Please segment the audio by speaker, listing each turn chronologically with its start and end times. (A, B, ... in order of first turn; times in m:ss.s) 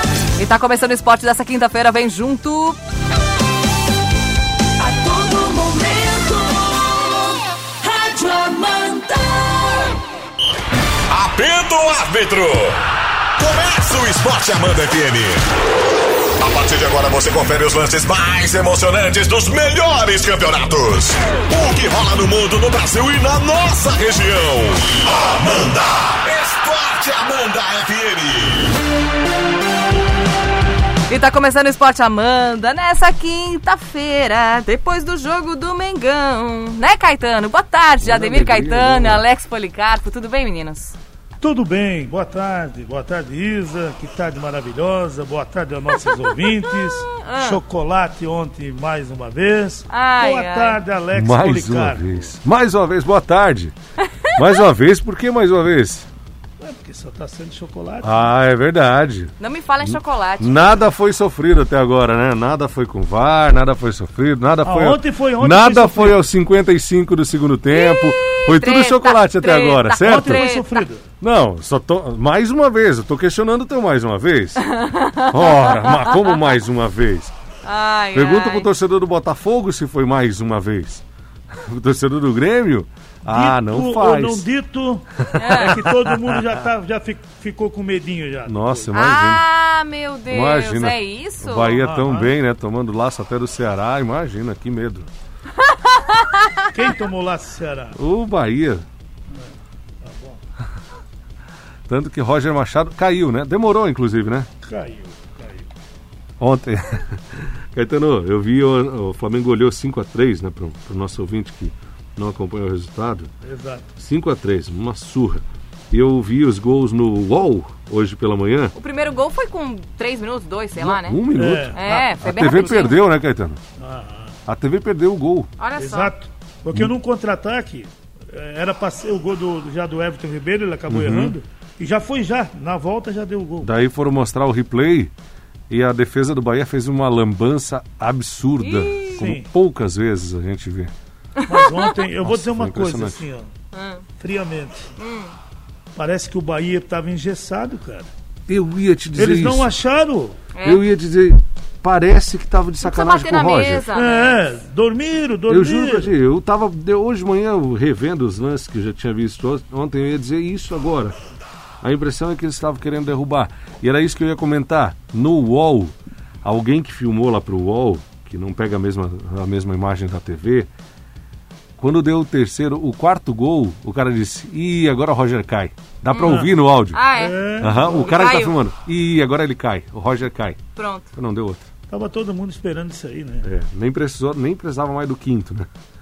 0:00.4-0:02.8 A
0:04.8-0:09.9 B
0:11.1-0:15.4 C
0:16.4-0:28.7 C
0:31.1-0:41.0 A
0:38.0-0:39.2 D
0:41.4-0:52.3 E
0:46.6-0:47.6 A
0:49.9-0:50.8 A
0:51.1-0:53.7 D
0:54.3-0:56.1 D
0:56.6-0:58.3 E
0:58.0-1:10.4 D
0:59.4-1:00.6 A
1:04.6-1:06.2 E
1:07.7-1:10.8 A
1:10.0-1:11.0 E
1:11.2-1:14.6 D
1:14.6-1:16.2 A
1:15.3-1:17.3 D
1:17.6-1:18.7 A
1:18.1-1:24.4 D
1:23.2-1:28.9 E
1:25.4-1:25.8 A
1:25.4-1:26.4 D
1:28.4-1:29.4 D
1:28.9-1:31.7 A
1:30.3-1:35.1 D
1:31.7-1:32.3 E
1:35.7-1:36.7 A
1:36.7-1:38.0 E
1:38.0-1:38.8 D
1:40.0-1:40.4 E
1:41.9-1:44.5 D
1:44.6-1:45.7 E
1:46.4-1:53.3 D
1:53.4-1:53.9 E
1:54.0-1:58.7 D
1:58.8-2:01.2 A
2:00.8-2:03.6 D
2:01.3-2:02.6 E
2:01.7-2:03.0 A
2:03.8-2:04.4 E
2:04.5-2:05.5 D
2:05.6-2:06.1 A
2:05.8-2:13.7 E
2:10.9-2:11.4 D
2:13.6-2:15.1 D
2:15.7-2:20.9 D
2:18.6-2:19.2 A
2:19.2-2:19.5 E
2:21.4-2:21.9 A
2:21.5-2:23.5 E
2:22.2-2:23.2 D
2:23.7-2:24.0 A
2:24.2-2:24.9 E
2:25.0-2:25.3 A
2:25.9-2:28.1 E
2:28.5-2:29.7 D
2:29.2-2:30.4 E
2:30.5-2:30.8 A
2:30.6-2:33.8 D
2:32.8-2:34.4 A
2:33.9-2:36.1 E
2:35.5-2:41.2 D
2:41.8-2:50.7 D
2:51.8-2:57.0 D
2:56.1-2:56.4 A
2:56.2-2:56.5 E
2:56.9-2:58.5 A
2:57.1-2:58.1 E
2:57.6-3:00.6 D
3:00.8-3:01.1 A
3:01.1-3:01.7 D
3:01.9-3:03.5 E
3:03.4-3:05.7 D